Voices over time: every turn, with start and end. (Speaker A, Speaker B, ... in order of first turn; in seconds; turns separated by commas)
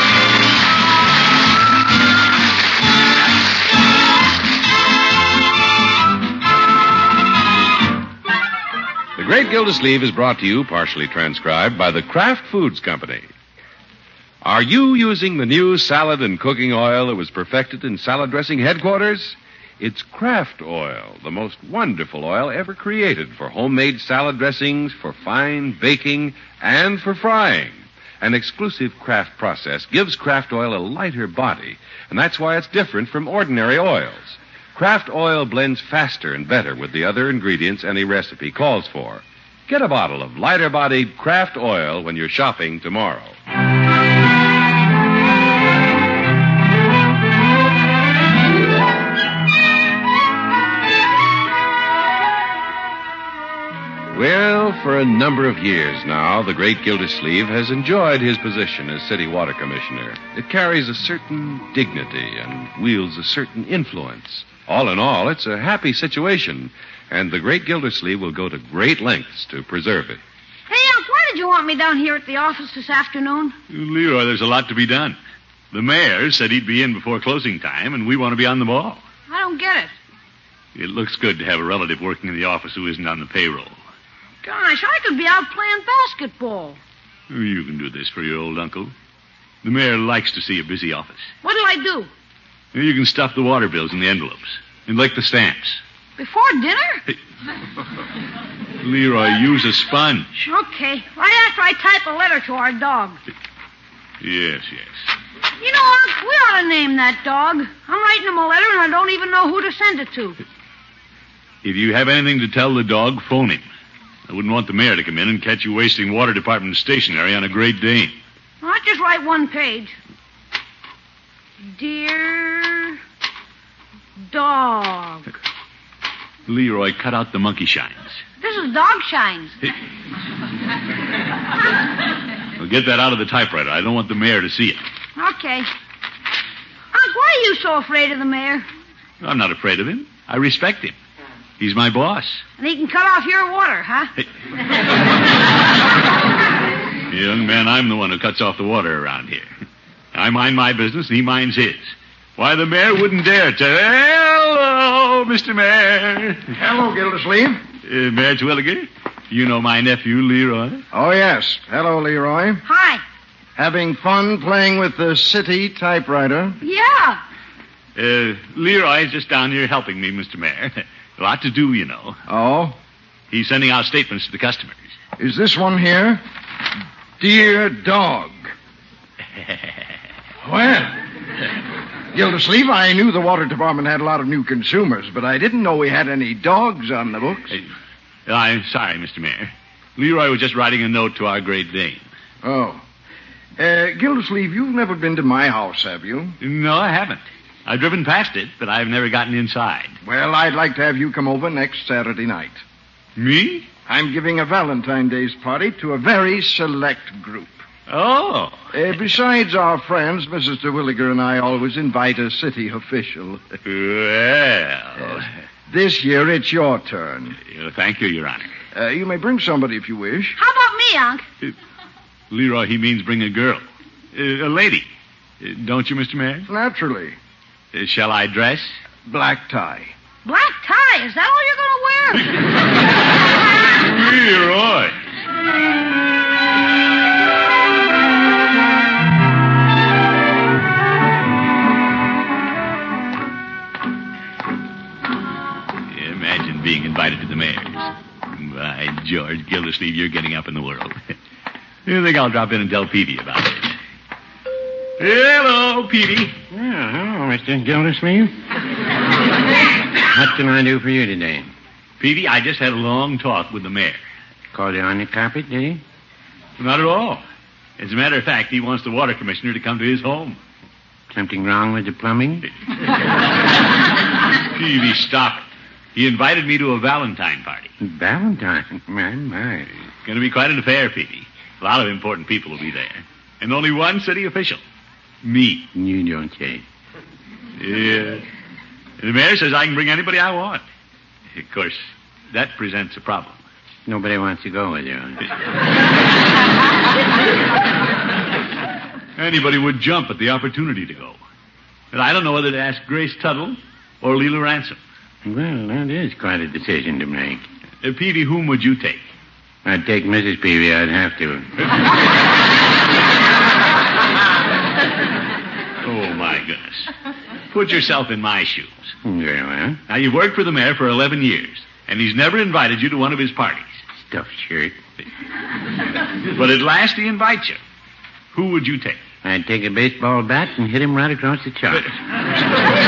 Speaker A: 9.2-13.3, Speaker A: 14.4-43.4, Speaker A: 54.1-70.2, Speaker B: 70.7-73.6, Speaker C: 73.7-75.2, Speaker C: 75.7-79.0, Speaker B: 79.3-79.9, Speaker C: 80.8-83.8, Speaker B: 84.4-86.8, Speaker C: 87.3-88.9, Speaker C: 89.6-91.3, Speaker B: 91.4-92.1, Speaker C: 92.7-95.8, Speaker B: 96.2-97.0, Speaker C: 98.8-100.4, Speaker B: 100.4-103.2, Speaker C: 104.2-105.1, Speaker B: 105.6-110.4, Speaker C: 111.6-113.7, Speaker C: 114.3-118.2, Speaker B: 118.6-120.0, Speaker B: 121.7-123.0, Speaker B: 124.3-125.3, Speaker C: 126.5-128.2, Speaker B: 128.4-129.6, Speaker C: 132.6-134.8, Speaker B: 135.2-135.7, Speaker B: 136.9-138.7, Speaker C: 139.2-140.9, Speaker C: 141.6-142.4, Speaker B: 142.6-144.1, Speaker C: 147.1-149.5, Speaker C: 150.1-156.5, Speaker D: 156.5-157.6, Speaker C: 157.8-160.8, Speaker D: 160.9-162.6, Speaker B: 162.7-163.0, Speaker D: 163.6-166.6, Speaker B: 166.6-167.2, Speaker C: 168.0-172.2, Speaker D: 172.3-172.8, Speaker C: 173.3-174.8, Speaker D: 175.2-176.2, Speaker D: 177.2-178.5, Speaker D: 180.4-181.0, Speaker D: 182.1-187.6, Speaker C: 188.3-192.0, Speaker D: 192.4-192.8, Speaker D: 193.6-196.4, Speaker C: 196.4-200.0, Speaker D: 200.0-202.6, Speaker C: 203.2-203.7, Speaker D: 203.9-207.6, Speaker C: 207.9-208.6, Speaker D: 208.7-213.6, Speaker C: 213.6-215.3, Speaker D: 215.0-217.4, Speaker C: 217.5-218.5, Speaker D: 218.7-220.4, Speaker B: 220.4-221.2, Speaker C: 222.3-223.6, Speaker C: 224.1-224.9, Speaker C: 225.4-226.5, Speaker D: 226.5-227.2, Speaker C: 227.7-228.8, Speaker D: 229.1-229.9, Speaker B: 230.2-232.3, Speaker C: 233.8-234.9, Speaker C: 245.9-251.1, Speaker C: 251.9-253.8, Speaker C: 255.0-256.4, Speaker E: 256.5-258.4, Speaker E: 260.1-261.5, Speaker C: 262.0-264.0, Speaker E: 264.5-265.8, Speaker C: 266.6-267.2, Speaker C: 267.8-270.4, Speaker E: 271.1-272.5, Speaker C: 274.5-277.7, Speaker E: 277.8-279.7, Speaker C: 280.1-284.6, Speaker C: 285.2-285.7, Speaker E: 285.7-286.6, Speaker C: 287.6-288.2, Speaker C: 289.0-290.6, Speaker C: 291.4-293.4, Speaker E: 293.9-295.3, Speaker C: 299.2-301.2, Speaker C: 301.9-304.8, Speaker E: 305.2-307.4, Speaker C: 307.8-309.0, Speaker E: 309.6-311.5, Speaker C: 315.8-316.9, Speaker C: 317.5-318.9, Speaker E: 319.1-319.8, Speaker C: 319.9-323.7, Speaker E: 324.0-324.8, Speaker C: 326.2-327.6, Speaker C: 328.3-329.0, Speaker E: 329.2-331.9